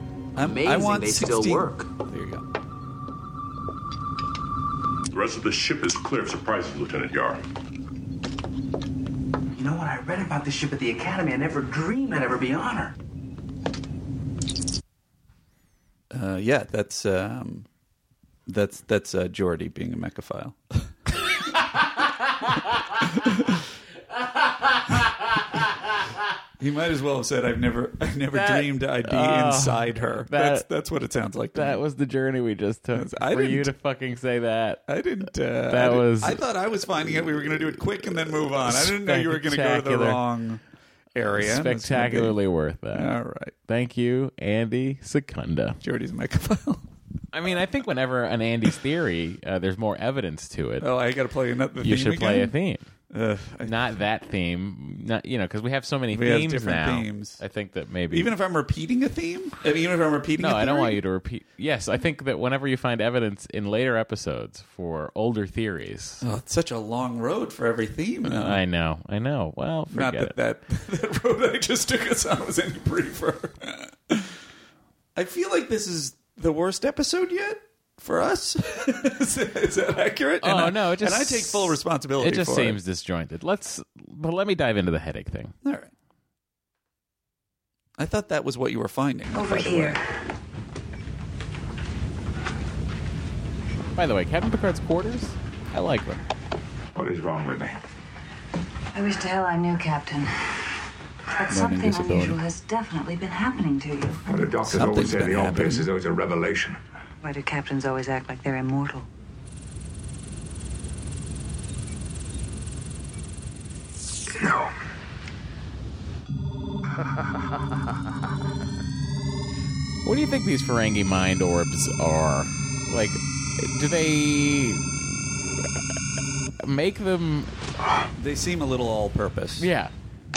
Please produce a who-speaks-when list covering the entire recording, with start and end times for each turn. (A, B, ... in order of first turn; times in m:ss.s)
0:00.4-0:02.4 A
0:00.4-0:01.9 B
0:05.1-0:07.4 C
0:09.5-0:13.0 B
0:16.1-0:17.7 A
0:18.5-0:20.6 A
0:21.8-0:23.1 D
0:24.1-0:26.0 D
0:26.6-0:31.8 A
0:28.3-0:30.7 D
0:31.5-0:34.8 D
0:32.9-0:33.7 A
0:34.9-0:40.6 A
0:35.7-0:36.4 D
0:37.1-0:40.2 D
0:41.2-0:42.4 A
0:41.4-0:43.1 D
0:42.9-0:43.5 A
0:43.7-0:45.8 D
0:45.8-0:46.9 A
0:47.3-0:50.9 D
0:50.8-0:52.5 A
0:51.8-0:52.9 D
0:53.1-0:53.8 A
0:53.6-0:58.3 D
0:56.1-0:57.4 A
0:58.1-1:01.0 A
1:00.4-1:06.2 D
1:06.2-1:08.6 A
1:08.2-1:10.4 D
1:09.9-1:14.4 A
1:15.2-1:22.8 A
1:20.4-1:25.5 D
1:25.6-1:25.9 A
1:28.0-1:30.0 A
1:29.3-1:30.0 E
1:34.0-1:36.2 D
1:37.0-1:37.8 F
1:38.9-1:40.7 E
1:41.4-1:44.2 E
1:41.5-1:42.4 A
1:44.3-1:46.8 F
1:44.7-1:45.9 A
1:47.2-1:49.1 E
1:54.4-1:54.7 F
2:00.0-2:05.8 D
2:06.6-2:07.5 D
2:08.2-2:09.7 A
2:09.6-2:09.9 D